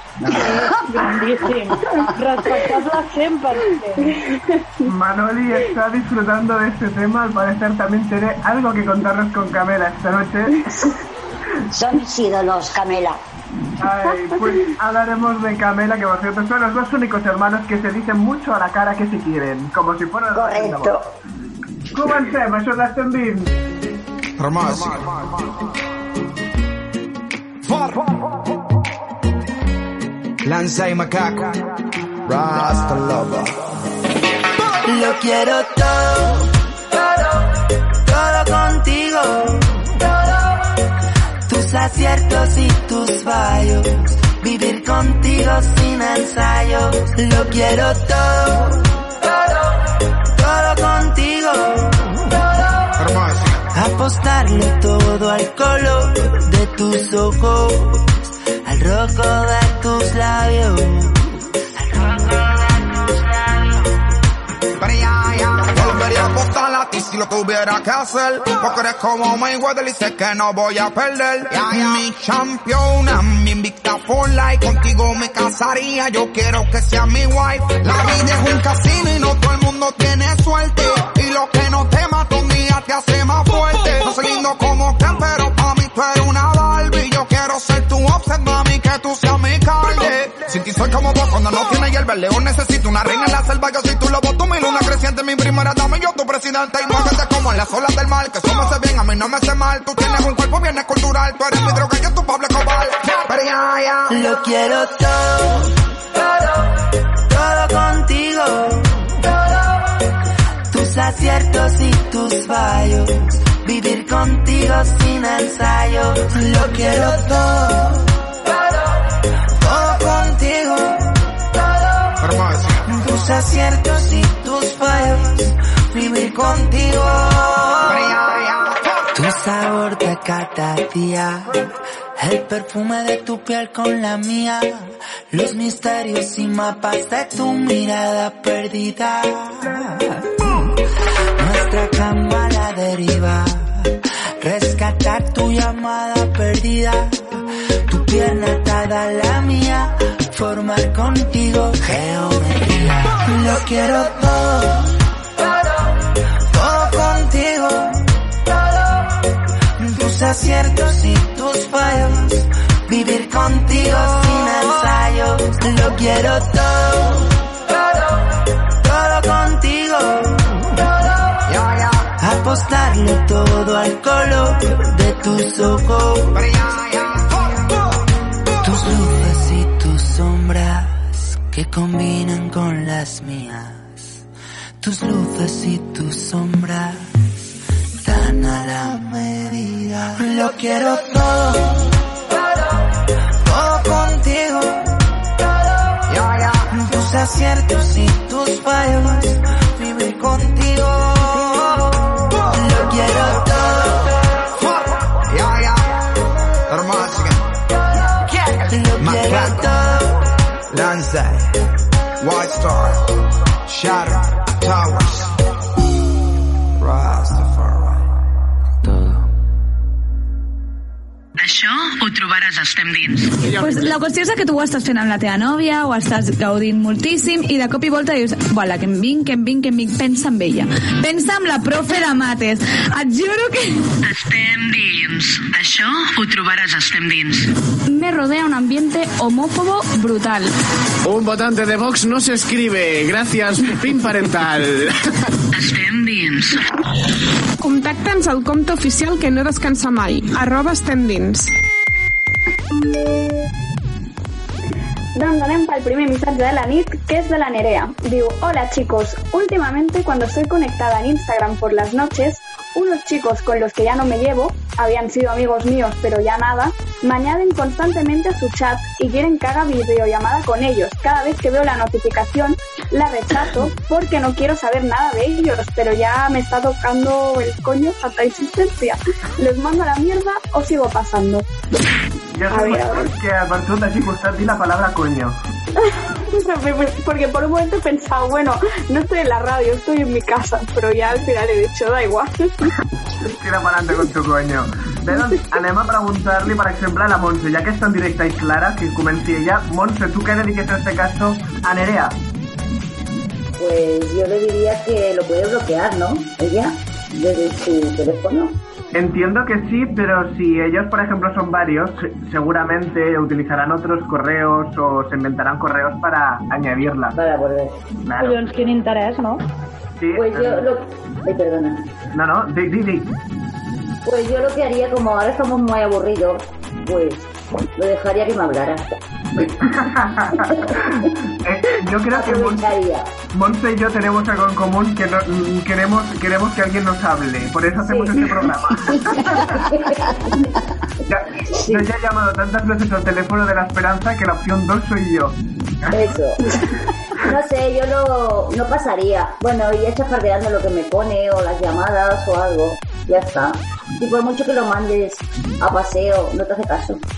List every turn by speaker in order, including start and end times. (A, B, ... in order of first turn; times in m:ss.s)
0:00.3-0:04.1 A
0:04.8-0:10.8 B
0:11.7-0:13.2 C
0:13.8-0:21.0 B
0:20.3-0:21.0 C
0:21.9-0:23.6 B
0:24.4-0:25.3 D
0:27.7-0:28.0 D
0:30.4-0:31.5 D
0:32.3-0:33.4 D
0:34.8-0:36.5 E
0:38.0-0:39.7 E
0:41.5-0:48.8 E
0:50.3-0:52.0 E
0:53.0-0:53.6 D
0:53.7-1:01.2 E
1:02.0-1:02.6 E
1:04.8-1:44.2 D
1:44.1-1:45.7 E
1:47.3-1:48.9 E
1:50.7-1:58.0 E
1:59.6-2:01.2 E
2:02.2-2:02.8 D
2:02.8-2:08.0 E
2:07.8-2:08.9 D
2:09.1-2:11.6 E
2:12.2-2:20.7 E
2:21.4-2:27.2 E
2:27.9-2:34.9 E
2:36.5-2:38.0 E
2:39.8-2:47.3 E
2:48.8-2:50.5 E
2:51.5-2:52.0 D
2:52.2-2:56.5 E
2:56.3-2:57.7 D
2:58.6-3:04.2 E
3:04.8-3:07.1 E
3:08.0-3:11.9 E
3:13.4-3:14.9 E
3:16.1-3:16.6 D
3:16.7-3:21.8 E
3:22.5-3:24.1 E
3:24.6-3:25.9 D
3:26.7-3:27.4 D
3:28.6-3:30.2 E
3:29.0-3:29.7 D
3:30.7-3:31.4 D
3:32.2-3:33.0 D
3:33.7-3:35.2 D
3:41.4-3:43.4 F
3:43.4-3:43.9 G
3:43.5-3:53.8 H
3:54.0-3:57.5 F
3:57.9-4:00.5 I
4:01.0-4:04.9 G
4:05.5-4:06.6 F
4:07.6-4:11.5 J
4:15.2-4:41.4 K
4:42.3-4:45.4 B
4:42.5-4:43.1 K
4:45.9-4:52.7 K
4:53.3-5:02.2 B
5:03.6-5:08.6 L
5:08.9-5:17.2 B
5:17.1-5:17.8 L
5:18.0-5:18.4 B
5:18.2-5:19.4 A
5:20.0-5:20.7 B
5:20.1-5:21.8 L
5:22.1-5:23.1 B
5:24.0-5:29.5 L
5:29.6-5:32.7 B
5:30.4-5:31.0 L
5:32.1-5:33.1 L
5:33.3-5:39.5 B
5:37.8-5:38.3 L
5:38.9-5:40.1 C
5:39.1-5:40.6 L
5:41.1-5:45.4 B
5:41.5-5:41.8 L
5:45.9-5:46.4 L
5:47.2-5:57.0 L